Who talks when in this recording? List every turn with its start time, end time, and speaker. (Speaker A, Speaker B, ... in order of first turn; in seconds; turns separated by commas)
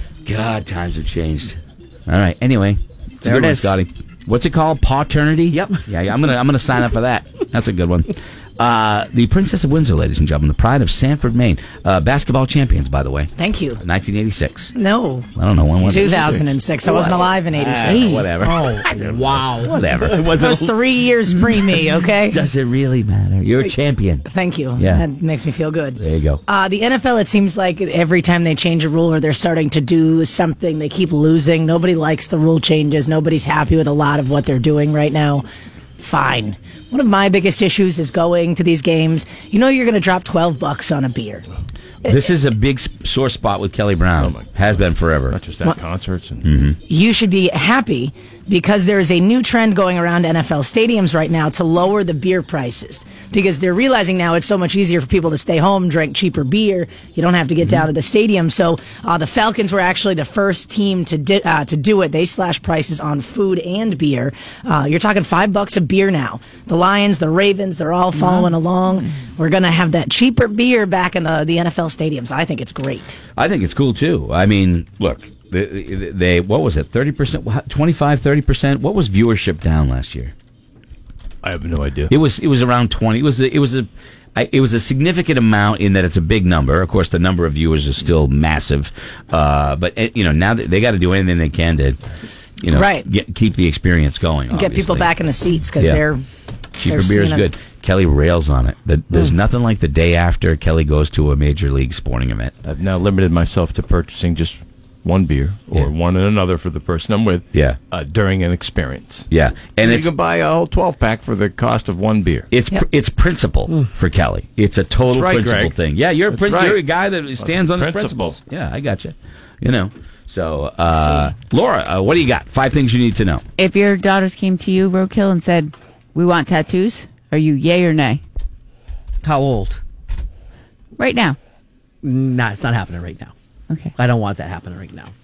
Speaker A: 0.2-14.7, Speaker B: 3.2-3.7, Speaker B: 5.5-5.8, Speaker C: 13.4-13.8, Speaker C: 14.7-15.3, Speaker A: 15.3-20.5, Speaker C: 15.8-18.8, Speaker D: 16.0-16.4, Speaker E: 17.8-18.2, Speaker C: 19.9-22.4, Speaker B: 20.0-20.6, Speaker A: 21.6-24.2, Speaker C: 24.2-35.4, Speaker A: 24.8-25.0, Speaker A: 26.0-26.4, Speaker C: 36.0-41.4, Speaker C: 42.0-42.3, Speaker A: 42.0-45.4, Speaker D: 44.2-46.4, Speaker A: 46.4-46.8, Speaker C: 46.9-73.2, Speaker E: 68.1-68.5, Speaker A: 73.4-80.3, Speaker D: 81.4-82.1, Speaker A: 82.1-92.0, Speaker A: 92.6-95.1, Speaker C: 92.7-93.0, Speaker C: 94.5-96.2, Speaker A: 95.8-96.0, Speaker A: 96.8-102.5, Speaker C: 96.8-97.5, Speaker D: 102.6-109.3, Speaker A: 107.5-107.8, Speaker A: 109.3-110.1, Speaker D: 109.8-112.5, Speaker A: 112.5-123.4, Speaker D: 115.1-115.7, Speaker D: 116.3-116.8, Speaker D: 117.4-118.4, Speaker E: 123.6-128.2, Speaker B: 129.2-129.8, Speaker E: 131.0-131.4, Speaker B: 132.0-133.3, Speaker B: 133.9-135.1